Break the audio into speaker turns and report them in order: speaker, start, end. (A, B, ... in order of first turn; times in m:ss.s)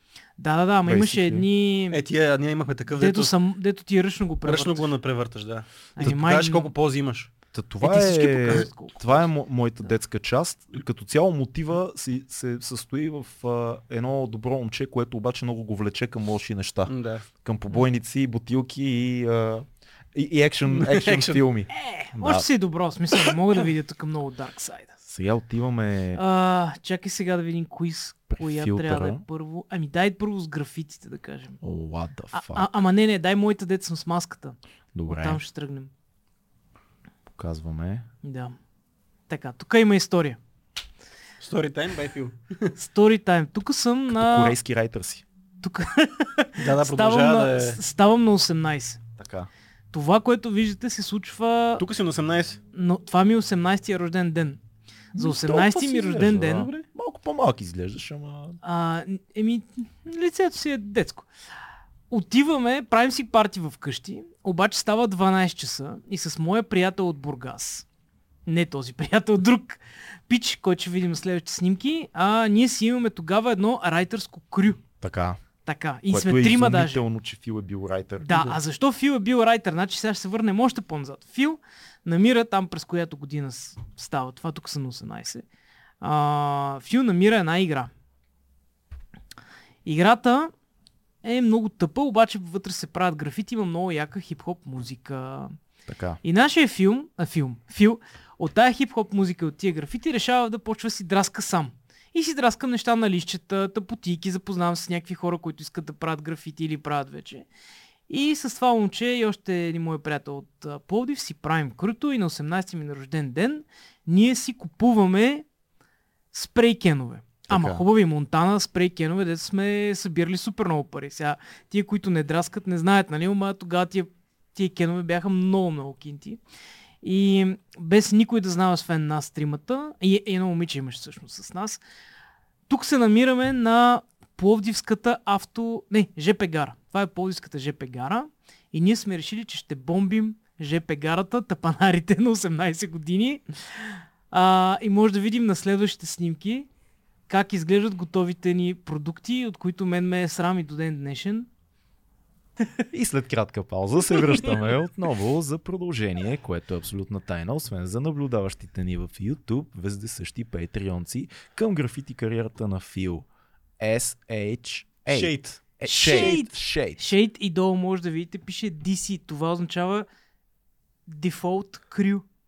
0:00.4-0:02.0 A
0:00.9-0:01.5 B
0:01.9-0:03.3 C
0:03.0-0:04.9 A
0:04.4-0:07.3 C
0:06.0-0:06.7 A
0:07.5-0:22.5 B
0:07.8-0:09.2 A
0:16.9-0:17.2 C
0:20.7-0:21.4 C
0:21.7-0:24.9 A
0:25.0-0:26.2 B
0:26.1-0:31.6 A
0:28.3-0:29.2 B
0:31.6-0:32.7 B
0:32.3-0:35.9 A
0:34.9-0:35.4 B
0:37.3-0:38.1 B
0:38.2-0:38.6 A
0:39.3-0:40.4 A
0:41.4-0:42.7 C
0:42.8-0:44.6 A
0:44.1-0:45.2 B
0:45.6-0:49.0 A
0:46.6-0:47.8 C
0:49.2-0:49.5 B
0:49.9-0:51.8 A
0:51.8-0:52.6 C
0:52.7-0:54.6 A
0:55.1-0:56.7 A
0:55.1-0:58.6 B
0:56.4-0:56.8 C
0:58.6-1:01.3 A
1:02.1-1:07.9 A
1:08.4-1:14.8 A
1:15.0-1:15.4 B
1:15.6-1:17.0 A
1:16.1-1:18.6 B
1:18.2-1:25.4 A
1:26.0-1:27.9 A
1:29.8-1:30.5 A
1:31.2-1:35.6 A
1:35.9-1:36.2 B
1:36.2-1:47.5 A
1:48.1-1:55.4 A
1:56.3-2:06.4 A
1:57.5-1:57.8 B
2:07.0-2:11.8 A
2:12.7-2:26.7 A
2:27.3-2:31.5 A
2:32.9-2:43.2 B
2:43.8-2:47.1 B
2:45.1-2:46.4 C
2:45.8-2:50.0 A
2:51.1-2:52.2 A